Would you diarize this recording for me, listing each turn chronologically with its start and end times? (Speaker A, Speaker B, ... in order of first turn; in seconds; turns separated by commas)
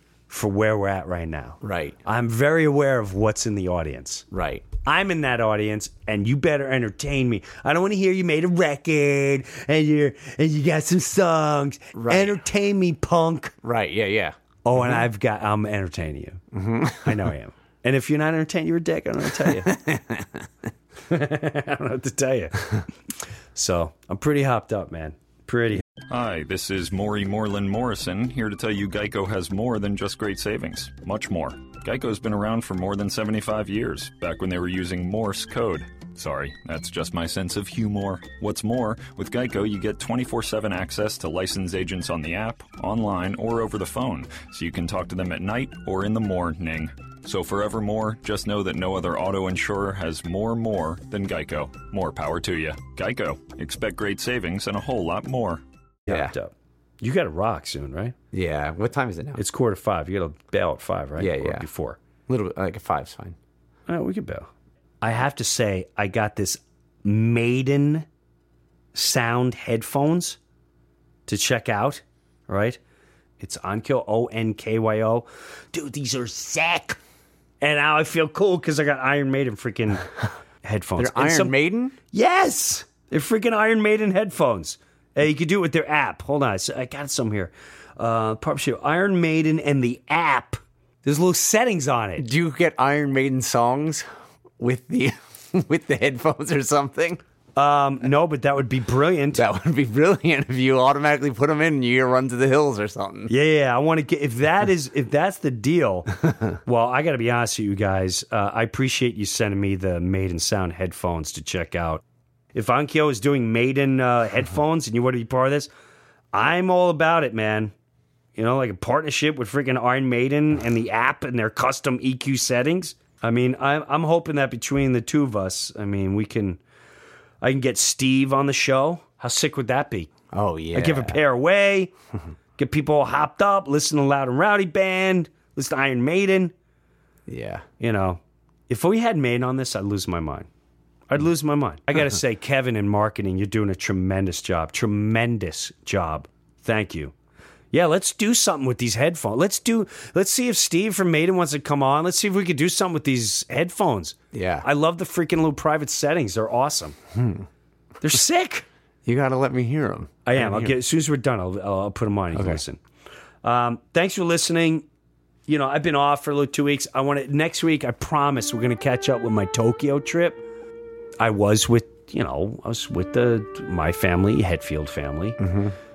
Speaker A: 0.3-4.2, Speaker B: 1.6-1.9, Speaker B: 4.3-4.6, Speaker A: 4.8-13.5, Speaker B: 11.9-12.4, Speaker B: 13.6-15.0, Speaker A: 14.6-16.4, Speaker B: 16.5-17.3, Speaker A: 16.9-19.7, Speaker B: 19.4-20.4, Speaker A: 21.1-22.9, Speaker A: 23.5-25.8, Speaker C: 26.1-55.6, Speaker A: 56.0-58.1, Speaker B: 56.1-56.3, Speaker B: 58.3-59.4, Speaker A: 59.4-62.0, Speaker B: 61.2-61.6, Speaker B: 62.3-63.4, Speaker A: 63.9-64.5, Speaker A: 65.0-68.1, Speaker A: 68.9-70.4, Speaker A: 71.3-72.8, Speaker A: 73.4-77.0, Speaker A: 77.6-80.1, Speaker A: 80.6-81.5, Speaker B: 81.0-81.9, Speaker A: 82.1-92.2, Speaker B: 92.2-94.0, Speaker B: 94.6-97.2, Speaker A: 97.5-99.4, Speaker B: 99.3-103.3, Speaker A: 103.3-112.0, Speaker A: 112.5-115.7, Speaker A: 116.3-117.7, Speaker A: 118.3-126.6, Speaker A: 127.4-130.1, Speaker B: 130.3-131.2, Speaker A: 130.7-131.9, Speaker A: 132.6-136.5, Speaker B: 137.3-137.6, Speaker A: 137.8-140.5, Speaker A: 141.1-147.1, Speaker A: 147.7-157.0, Speaker B: 154.3-154.7, Speaker B: 157.1-157.4, Speaker A: 158.0-158.6, Speaker B: 159.1-160.7, Speaker A: 160.2-162.8, Speaker B: 162.3-162.6, Speaker A: 163.4-164.8, Speaker A: 165.5-170.4, Speaker A: 171.2-175.4, Speaker B: 175.4-175.7